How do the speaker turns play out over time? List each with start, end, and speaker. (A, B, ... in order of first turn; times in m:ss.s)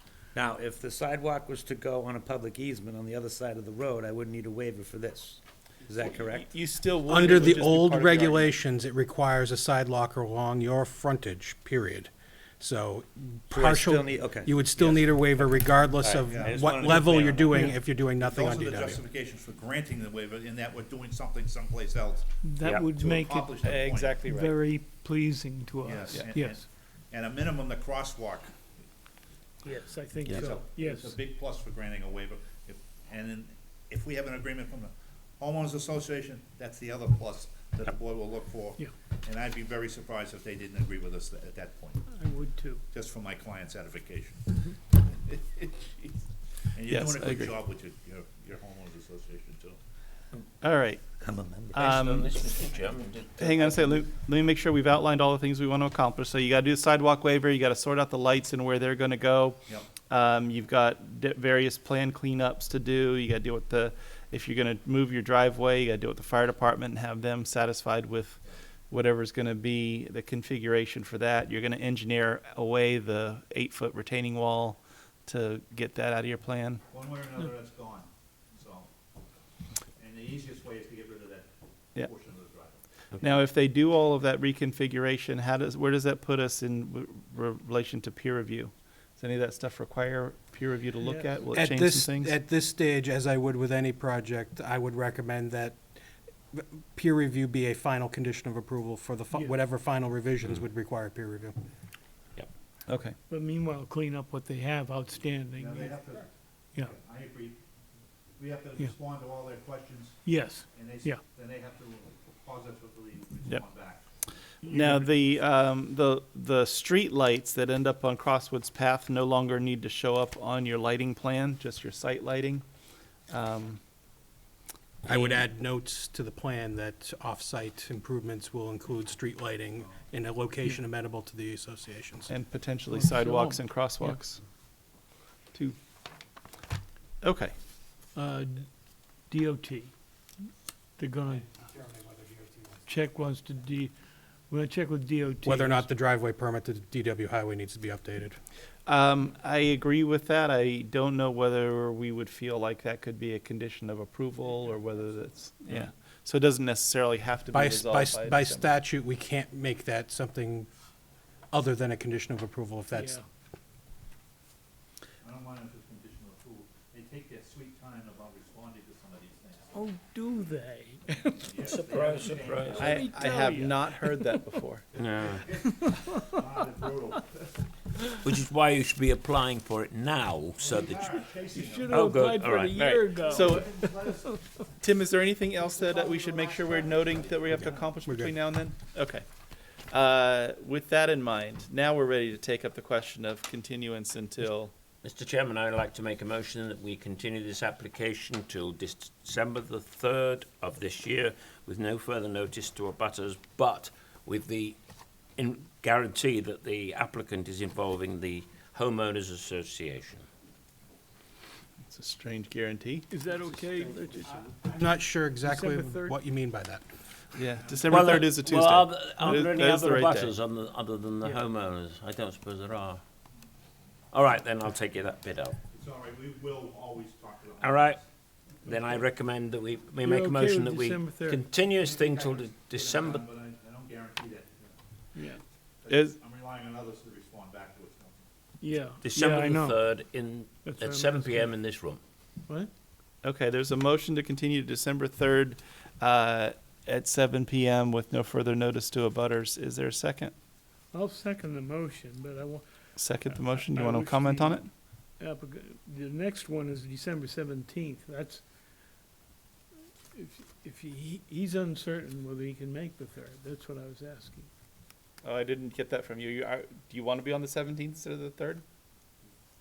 0:00.3-0:06.5 A
0:06.2-0:08.5 B
0:07.1-0:19.0 C
0:13.5-0:17.7 A
0:17.5-0:17.8 D
0:18.2-0:24.2 E
0:22.4-0:23.6 D
0:23.6-0:24.6 B
0:24.2-0:26.7 D
0:25.8-0:28.6 E
0:29.6-0:31.2 D
0:30.3-0:42.0 E
0:42.1-0:42.8 D
0:42.9-0:49.8 E
0:46.8-0:47.5 B
0:50.6-0:51.0 B
0:51.2-0:51.8 A
0:51.7-0:52.3 B
0:51.7-0:54.0 F
0:53.4-1:16.8 B
0:59.7-0:59.9 E
1:16.9-1:18.9 E
1:20.0-1:22.8 E
1:23.2-1:32.4 B
1:31.0-1:31.4 D
1:31.5-1:35.8 C
1:36.5-1:41.6 C
1:39.3-1:39.6 D
1:42.9-1:43.1 B
1:43.3-1:46.1 D
1:45.5-1:47.6 E
1:48.4-1:54.1 E
1:50.2-1:51.2 D
1:54.6-1:55.1 D
1:54.6-2:02.6 B
2:03.3-2:03.8 B
2:05.0-2:12.3 C
2:12.3-2:14.4 B
2:12.9-2:14.2 D
2:17.2-2:17.5 B
2:18.1-2:19.9 D
2:21.0-2:21.5 D
2:21.5-2:22.8 C
2:22.8-2:25.9 D
2:25.4-2:28.4 C
2:28.8-2:38.7 B
2:37.5-2:40.7 C
2:41.5-2:43.2 C
2:42.9-2:43.2 D
2:45.2-2:49.7 E
2:49.7-2:51.6 D
2:51.4-2:53.2 E
2:51.6-2:53.0 F
2:52.7-2:54.8 B
2:52.8-2:54.6 D
2:54.9-2:57.6 E
2:54.9-2:55.4 F
2:55.6-2:56.5 D
2:58.2-3:01.2 F
3:00.6-3:02.2 E
3:01.4-3:04.5 D
3:01.9-3:02.9 F
3:02.7-3:03.8 B
3:03.3-3:04.3 E
3:04.8-3:09.2 B
3:06.0-3:07.2 E
3:07.5-3:08.4 C
3:09.9-3:14.7 B
3:15.0-3:24.8 F
3:25.4-3:30.2 F
3:31.9-3:33.1 B
3:33.1-3:34.5 D
3:34.7-3:36.9 C
3:35.4-3:36.2 D
3:37.4-3:40.3 B
3:37.5-3:38.3 E
3:37.9-3:43.0 F
3:44.1-3:45.6 F
3:45.7-3:48.0 E
3:47.6-3:48.0 F
3:48.6-3:53.2 F
3:50.0-3:51.5 D
3:51.7-3:54.8 E
3:55.1-3:55.4 D
3:55.8-3:58.3 E
3:55.9-3:56.2 B
3:58.6-3:59.8 D
3:59.0-4:02.0 F
4:00.6-4:01.6 D
4:03.2-4:10.3 B
4:10.9-4:18.5 D
4:13.0-4:14.7 B
4:20.1-4:24.5 D
4:25.2-4:28.6 B